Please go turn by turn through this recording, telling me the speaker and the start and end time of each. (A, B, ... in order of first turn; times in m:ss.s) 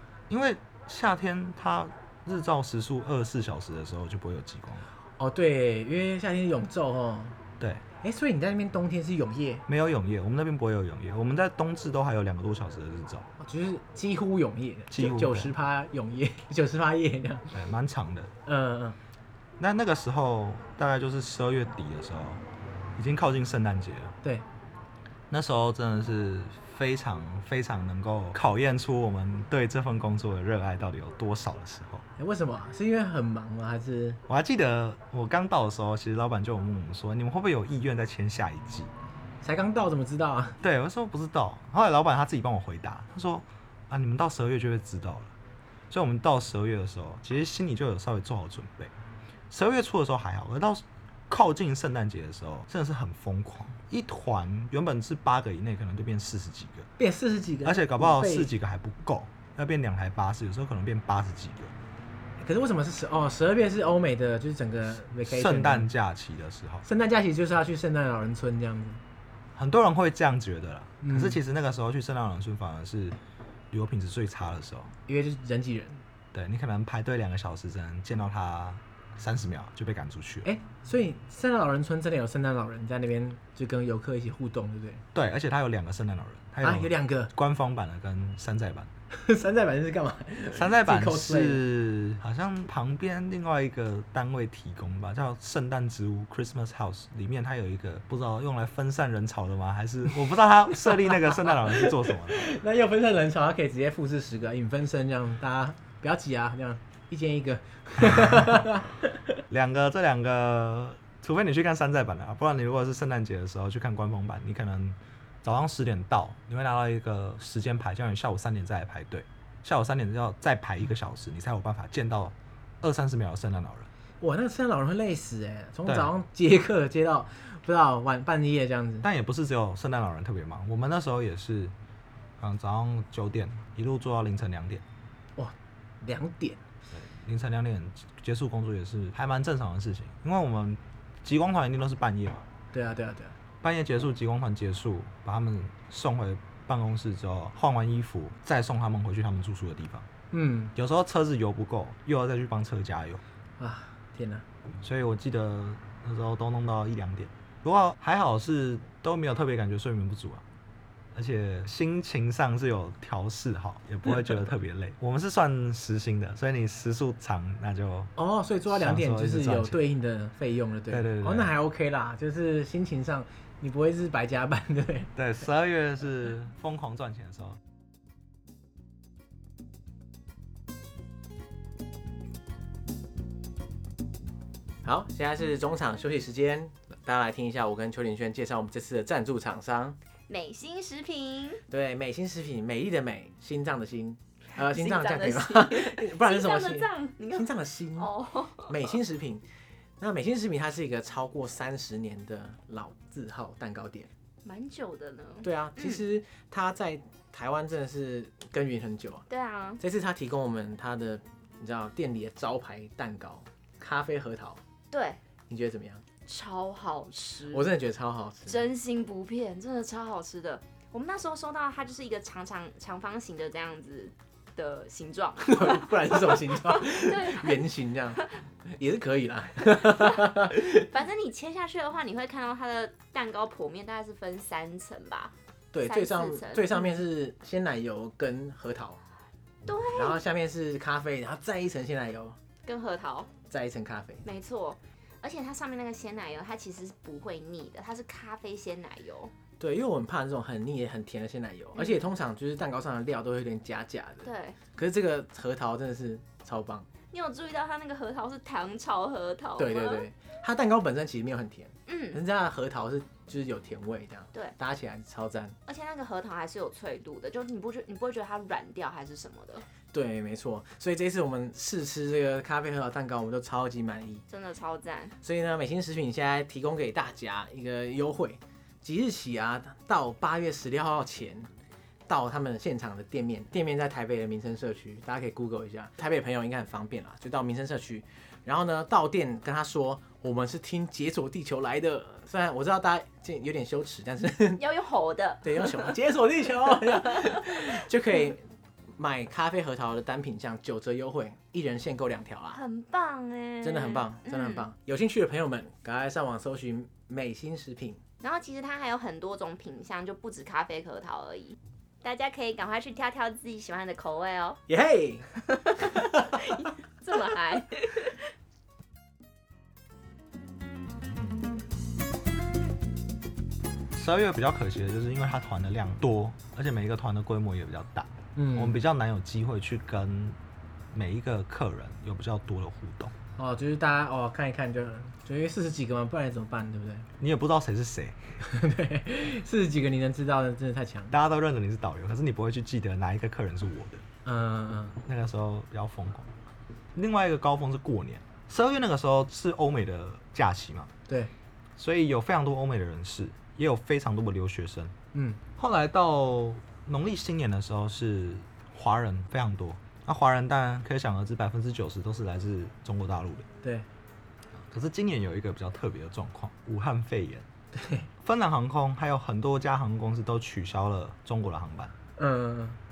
0:00.3-0:04.9 A
0:05.2-0:07.4 B
0:08.0-0:09.6 B
0:09.7-0:13.3 A
0:13.4-0:17.5 B
0:14.9-0:15.5 A
0:17.5-0:18.3 A
0:18.4-0:19.0 B
0:19.6-0:22.4 A
0:23.0-0:24.2 A
0:25.3-0:32.0 A
0:32.2-0:34.2 B
0:34.3-0:38.9 A
0:39.4-0:40.6 B
0:40.6-0:45.3 A
0:45.9-0:48.9 A
0:49.5-0:56.9 A
0:57.0-0:58.5 B
0:57.6-1:01.7 A
1:02.4-1:05.9 B
1:05.2-1:06.8 A
1:06.8-1:09.0 B
1:09.5-1:13.2 A
1:11.0-1:11.4 B
1:13.7-1:14.9 A
1:15.1-1:16.0 B
1:16.3-1:20.5 A
1:20.4-1:25.0 B
1:25.1-1:28.9 A
1:26.6-1:27.3 B
1:29.1-1:31.6 B
1:30.5-1:42.6 A
1:40.9-1:49.2 B
1:49.5-2:03.9 A
2:04.2-2:09.1 B
2:05.8-2:06.1 A
2:09.0-2:11.7 A
2:12.4-2:14.8 A
2:15.4-2:16.6 B
2:16.9-2:22.5 A
2:22.7-2:23.4 B
2:23.6-2:30.1 A
2:30.3-2:30.7 B
2:30.7-2:33.2 A
2:33.6-2:34.4 B
2:34.8-2:40.4 A
2:41.1-2:48.1 A
2:48.2-2:55.1 B
2:48.7-2:49.8 A
2:50.9-2:51.5 A
2:55.2-2:57.6 A
3:04.8-3:10.0 B
3:10.3-3:11.6 C
3:11.7-3:19.4 B
3:14.6-3:18.7 C
3:20.0-3:24.1 B
3:24.4-3:26.0 C
3:25.4-3:29.2 B
3:29.3-3:29.8 C
3:29.8-3:34.6 B
3:34.9-3:35.2 C
3:35.5-3:36.0 B
3:36.3-3:37.7 C
3:37.5-3:38.6 B
3:38.5-3:47.6 C
3:45.4-3:50.8 B
3:49.7-3:55.3 C
3:55.7-3:59.0 B
3:55.8-3:57.0 C
3:59.6-4:00.2 C
3:59.9-4:02.4 B
4:02.6-4:03.3 C
4:03.5-4:04.2 B
4:04.2-4:09.3 C
4:09.6-4:16.9 B
4:11.8-4:12.1 C
4:14.2-4:14.6 C
4:17.1-4:20.0 C
4:19.6-4:25.6 B
4:21.9-4:22.2 C
4:25.7-4:29.6 C
4:29.9-4:34.2 B
4:34.3-4:35.1 C
4:35.2-4:41.5 B
4:42.1-4:54.6 B
4:54.6-4:55.9 C
4:55.4-4:58.4 B
4:56.7-4:57.6 C
4:59.0-5:02.6 B
5:02.5-5:04.6 C
5:03.6-5:08.0 B
5:08.2-5:14.6 C
5:14.7-5:15.3 B
5:15.5-5:18.2 C
5:15.8-5:16.5 B
5:23.9-5:30.4 A
5:28.3-5:28.8 B
5:30.9-5:33.1 A
5:33.4-5:37.1 B
5:37.2-5:38.2 A
5:38.4-5:41.1 B
5:41.1-5:44.0 A
5:44.2-5:45.0 B
5:45.0-5:46.3 A
5:46.9-5:50.9 A
5:51.8-5:54.9 A
5:55.1-5:55.4 B
5:55.6-6:03.5 A
6:04.6-6:07.5 A
6:07.7-6:08.1 B
6:08.2-6:11.9 A
6:12.2-6:12.8 B